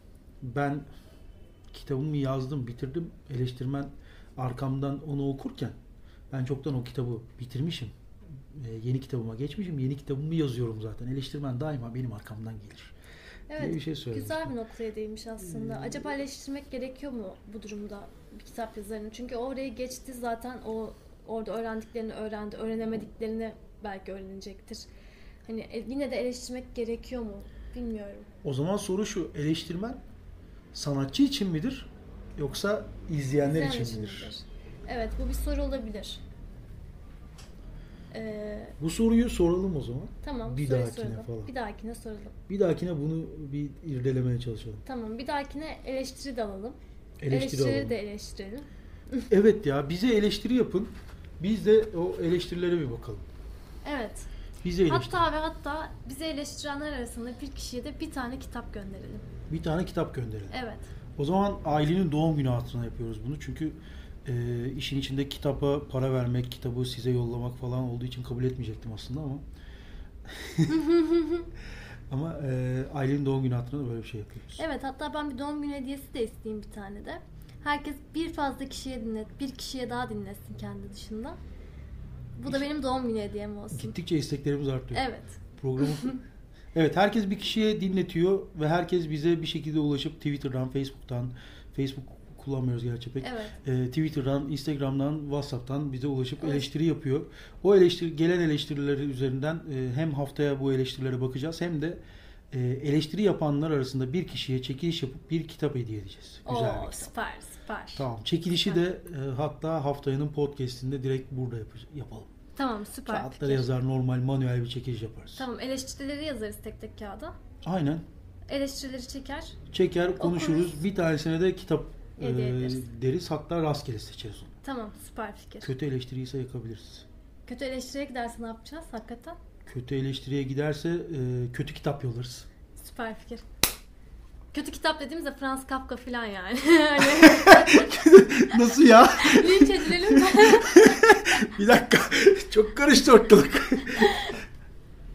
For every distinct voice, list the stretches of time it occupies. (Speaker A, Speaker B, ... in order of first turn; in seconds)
Speaker A: 0.4-0.9, 1.7-5.8, 6.3-12.9, 13.6-14.6, 15.4-16.1, 28.4-30.0, 30.7-34.3, 38.8-41.5, 42.5-44.8, 47.2-48.0, 49.3-53.3, 54.6-55.2, 59.5-60.5, 61.2-69.4, 70.2-70.8, 72.1-74.6, 83.7-85.1, 85.6-86.2, 86.7-107.1, 108.0-112.3, 113.1-115.5, 117.6-118.1, 119.7-124.5, 125.6-127.1, 129.7-132.5, 137.0-144.3
Speaker B: 13.5-24.9, 25.4-28.3, 33.5-36.2, 38.1-38.8, 40.2-42.4, 44.9-46.8, 47.3-49.3, 53.9-54.3, 54.9-59.3, 60.5-60.9, 70.7-71.5, 74.6-81.4, 82.4-84.0, 84.9-86.2, 93.2-93.6, 96.4-96.7, 106.5-108.1, 112.6-113.7, 115.4-117.3, 118.5-119.6, 120.2-120.8, 122.2-122.9, 124.6-125.7, 127.5-129.4, 132.8-133.4, 134.5-137.9, 138.5-141.0, 144.0-144.3